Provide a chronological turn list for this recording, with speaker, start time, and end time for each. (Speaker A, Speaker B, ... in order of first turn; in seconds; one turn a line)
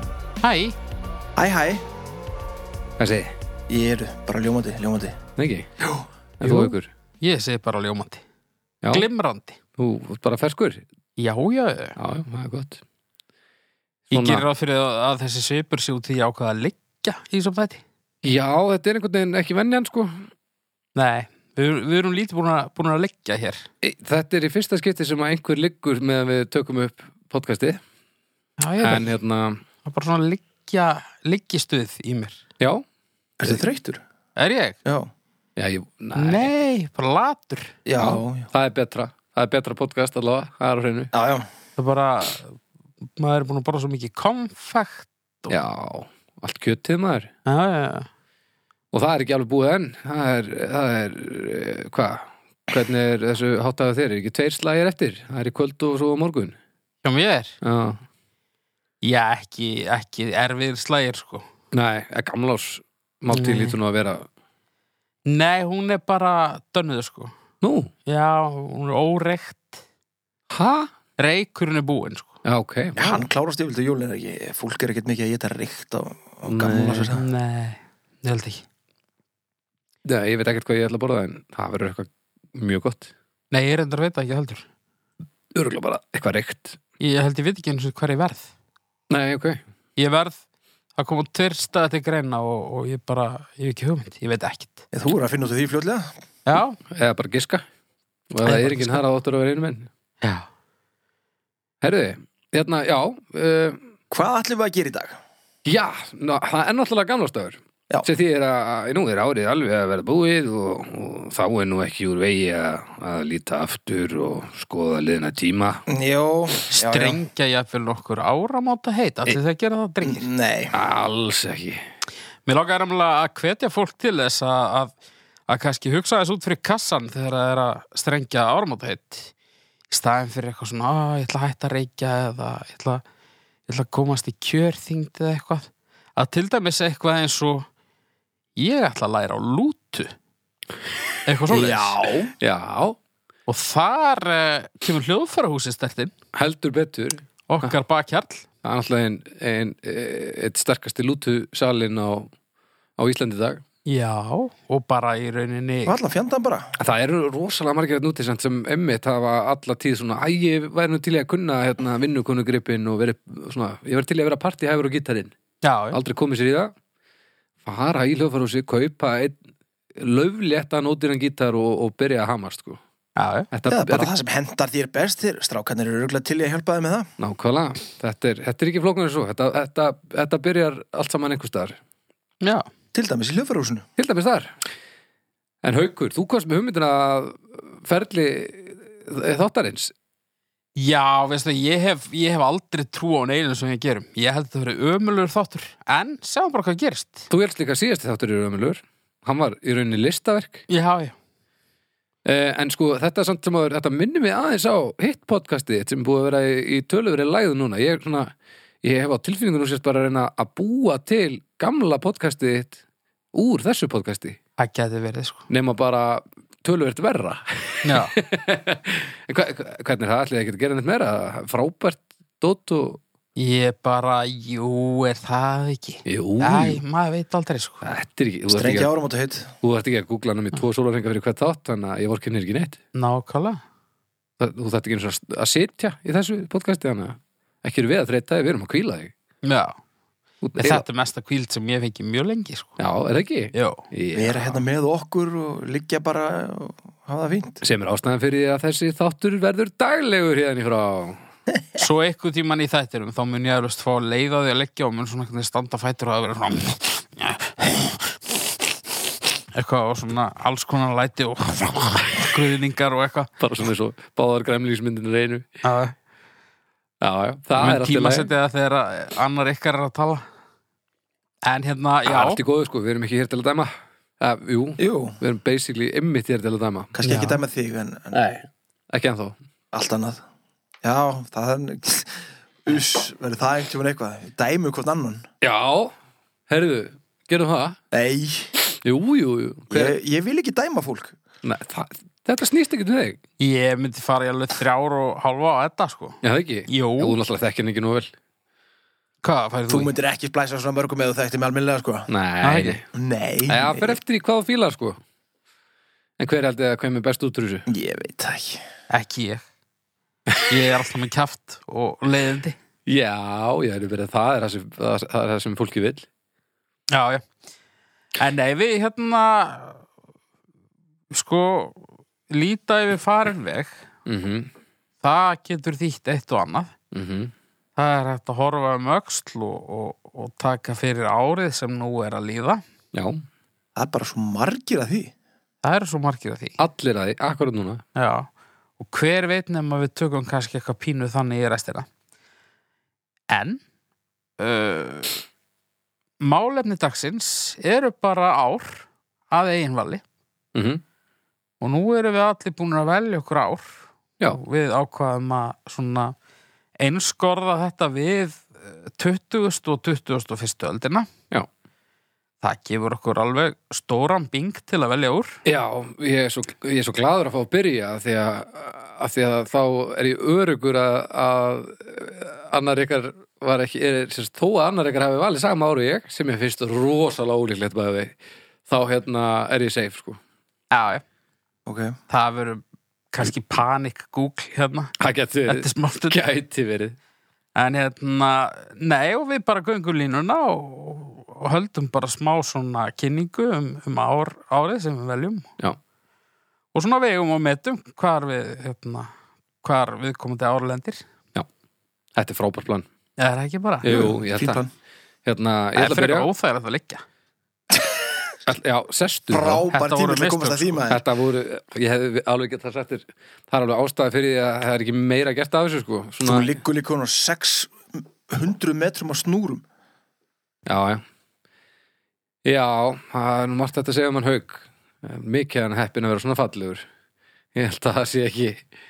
Speaker A: 0.4-0.8
Speaker B: 1.4-1.8
Speaker C: 3.0-3.3
Speaker B: 3.7-5.2
Speaker C: 5.3-5.7
Speaker B: 5.8-6.1
Speaker C: 6.4-6.9
Speaker A: 6.4-8.2
Speaker C: 8.8-9.1
Speaker A: 8.9-9.6
Speaker C: 9.8-10.8
Speaker A: 11.2-12.0
Speaker C: 12.0-12.8
Speaker C: 14.1-14.4
Speaker A: 14.1-17.8
Speaker C: 18.2-20.3
Speaker A: 20.9-23.7
Speaker C: 23.8-27.8
Speaker A: 28.6-29.1
Speaker C: 28.8-29.6
Speaker A: 29.8-32.4
Speaker B: 33.4-34.0
Speaker A: 34.4-34.8
Speaker B: 34.8-35.1
Speaker C: 35.6-36.5
Speaker A: 36.1-37.8
Speaker B: 37.9-38.5
Speaker C: 38.0-41.1
Speaker B: 41.1-41.5
Speaker A: 41.8-42.6
Speaker A: 43.2-45.5
Speaker C: 45.5-47.3
Speaker A: 47.5-48.1
Speaker C: 48.9-56.6
Speaker A: 57.0-57.6
Speaker C: 57.6-58.0
Speaker A: 59.0-61.5
Speaker C: 61.7-64.3
Speaker A: 63.3-63.8
Speaker A: 65.2-67.3
Speaker C: 67.6-67.9
Speaker A: 68.0-69.8
Speaker C: 70.5-70.9
Speaker A: 71.2-72.3
Speaker C: 72.4-73.2
Speaker B: 73.0-77.2
Speaker C: 76.5-77.1
Speaker A: 77.1-78.6
Speaker C: 80.0-83.1
Speaker A: 83.5-84.7
Speaker C: 85.5-86.8
Speaker A: 87.0-88.5
Speaker C: 89.1-89.6
Speaker A: 90.0-90.4
Speaker A: 91.0-94.8
Speaker B: 94.9-96.1
Speaker A: 96.5-96.8
Speaker C: 96.9-97.6
Speaker C: 98.3-99.9
Speaker A: 98.4-99.0
Speaker A: 100.2-100.5
Speaker C: 101.8-103.8
Speaker B: 104.1-105.2
Speaker C: 105.6-115.8
Speaker B: 115.9-117.2
Speaker A: 116.7-120.2
Speaker B: 120.0-120.7
Speaker C: 120.7-121.8
Speaker A: 122.5-124.9
Speaker A: 125.5-129.3
Speaker A: 129.9-133.0
Speaker A: 133.7-137.7
Speaker A: 138.6-140.1
Speaker A: 141.2-142.1
Speaker B: 141.5-142.3
Speaker C: 142.4-143.0
Speaker A: 143.5-146.1
Speaker C: 146.3-147.7
Speaker A: 147.5-148.4
Speaker C: 148.6-152.3
Speaker C: 153.0-153.6
Speaker A: 153.8-155.9
Speaker B: 155.8-156.7
Speaker C: 156.8-165.3
Speaker A: 165.6-166.0
Speaker C: 165.9-166.7
Speaker C: 167.6-169.4
Speaker C: 169.9-172.8
Speaker A: 173.2-173.5
Speaker C: 173.5-174.1
Speaker B: 173.7-177.1
Speaker C: 177.2-181.8
Speaker A: 182.4-182.7
Speaker B: 182.9-183.8
Speaker C: 184.0-184.6
Speaker C: 185.6-189.9
Speaker A: 190.8-197.3
Speaker C: 197.3-200.6
Speaker A: 200.7-201.2
Speaker C: 202.2-212.8
Speaker C: 213.3-214.4
Speaker A: 214.6-215.5
Speaker C: 215.5-223.0
Speaker A: 217.8-218.1
Speaker A: 223.4-227.8
Speaker C: 226.0-226.8
Speaker C: 227.8-228.9
Speaker B: 228.5-229.5
Speaker C: 229.6-232.8
Speaker A: 232.9-233.6
Speaker C: 234.4-239.1
Speaker A: 239.4-239.8
Speaker C: 240.4-240.8
Speaker A: 240.6-242.8
Speaker C: 242.8-244.6
Speaker A: 243.5-243.8
Speaker B: 244.1-247.6
Speaker C: 247.6-251.2
Speaker A: 251.7-258.1
Speaker A: 259.5-263.3
Speaker C: 263.4-265.5
Speaker A: 265.6-265.9
Speaker C: 267.0-268.3
Speaker A: 267.6-270.2
Speaker A: 271.4-272.4
Speaker C: 272.1-276.9
Speaker B: 274.8-275.2
Speaker B: 276.9-278.2
Speaker A: 277.0-277.4
Speaker C: 278.1-279.4
Speaker B: 279.7-280.2
Speaker B: 280.8-285.2
Speaker C: 285.4-285.9
Speaker C: 286.5-287.8
Speaker B: 287.9-288.5
Speaker C: 288.8-289.9
Speaker B: 289.7-291.1
Speaker C: 291.4-293.2
Speaker A: 293.4-297.2
Speaker C: 296.2-298.1
Speaker A: 299.2-299.9
Speaker B: 299.7-302.1
Speaker C: 302.1-302.9
Speaker A: 302.4-302.8
Speaker B: 302.9-304.0
Speaker C: 303.5-305.0
Speaker C: 306.2-307.6
Speaker B: 307.7-308.6
Speaker A: 308.9-309.4
Speaker A: 310.5-312.6
Speaker C: 312.9-316.1
Speaker A: 316.9-317.2
Speaker A: 318.2-319.8
Speaker A: 321.1-323.8
Speaker C: 324.1-324.5
Speaker A: 325.0-326.7
Speaker C: 326.9-327.3
Speaker A: 327.8-332.6
Speaker C: 332.9-333.2
Speaker B: 333.8-335.1
Speaker A: 335.6-336.6
Speaker C: 336.6-337.8
Speaker A: 337.9-341.9
Speaker A: 343.3-343.6
Speaker A: 344.4-345.2
Speaker A: 346.2-350.0
Speaker C: 350.5-350.8
Speaker A: 351.6-356.1
Speaker A: 356.8-361.1
Speaker A: 362.4-365.4
Speaker C: 365.4-378.1
Speaker C: 378.7-380.2
Speaker A: 380.7-381.0
Speaker B: 381.6-382.0
Speaker A: 382.1-384.9
Speaker C: 385.0-386.9
Speaker A: 385.5-386.2
Speaker A: 387.6-395.5
Speaker A: 396.7-399.1
Speaker A: 399.6-401.0
Speaker C: 402.1-402.9
Speaker A: 403.2-404.1
Speaker C: 403.8-404.6
Speaker B: 403.9-404.7
Speaker C: 405.2-406.3
Speaker A: 405.8-407.0
Speaker C: 408.4-409.6
Speaker B: 409.3-411.0
Speaker A: 409.7-410.8
Speaker C: 410.9-416.5
Speaker B: 416.2-419.6
Speaker C: 420.7-421.0
Speaker C: 422.4-426.8
Speaker C: 427.5-428.6